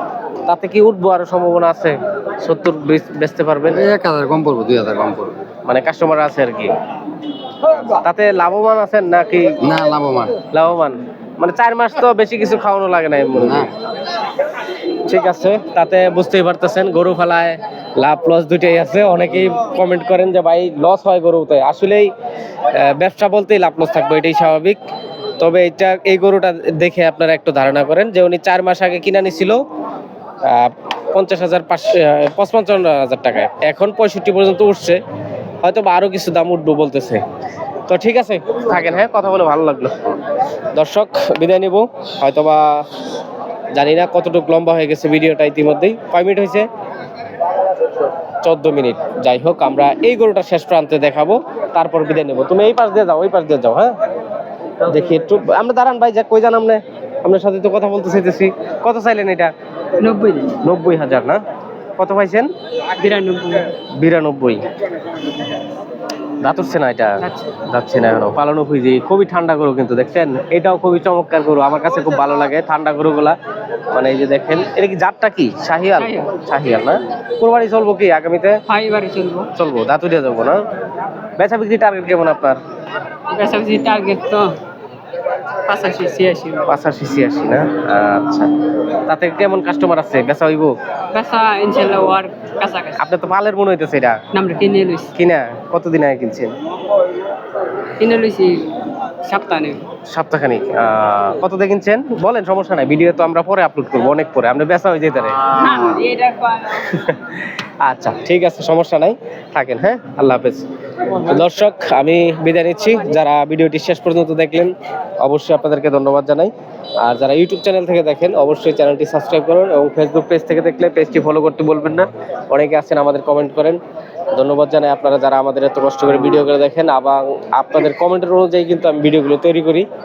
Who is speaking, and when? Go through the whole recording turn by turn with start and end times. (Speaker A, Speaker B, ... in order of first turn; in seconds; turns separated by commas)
Speaker A: 0.5-3.8, Speaker B: 3.7-5.4, Speaker A: 5.7-6.7, Speaker A: 7.9-9.6, Speaker B: 9.6-10.4, Speaker A: 10.5-13.7, Speaker B: 13.3-13.7, Speaker A: 15.1-22.1, Speaker A: 22.7-24.8, Speaker A: 25.4-29.6, Speaker A: 30.4-35.0, Speaker A: 35.6-37.2, Speaker A: 37.9-40.0, Speaker A: 40.7-42.8, Speaker A: 43.8-46.7, Speaker A: 48.4-54.0, Speaker A: 54.8-59.5, Speaker C: 60.0-60.5, Speaker A: 60.6-61.4, Speaker A: 62.0-62.5, Speaker C: 63.0-63.7, Speaker A: 64.0-64.6, Speaker A: 66.4-73.4, Speaker C: 67.2-67.5, Speaker A: 73.9-78.6, Speaker C: 76.0-76.3, Speaker C: 78.7-79.5, Speaker A: 79.5-80.6, Speaker A: 81.4-82.6, Speaker C: 83.3-84.6, Speaker C: 85.7-86.6, Speaker A: 86.7-88.5, Speaker A: 89.1-90.7, Speaker C: 91.1-93.0, Speaker A: 93.0-94.2, Speaker C: 94.3-95.1, Speaker A: 95.1-96.5, Speaker C: 98.0-98.7, Speaker C: 99.2-99.8, Speaker A: 100.1-105.8, Speaker C: 105.6-106.8, Speaker A: 106.8-116.5, Speaker A: 117.0-123.8, Speaker A: 124.3-129.9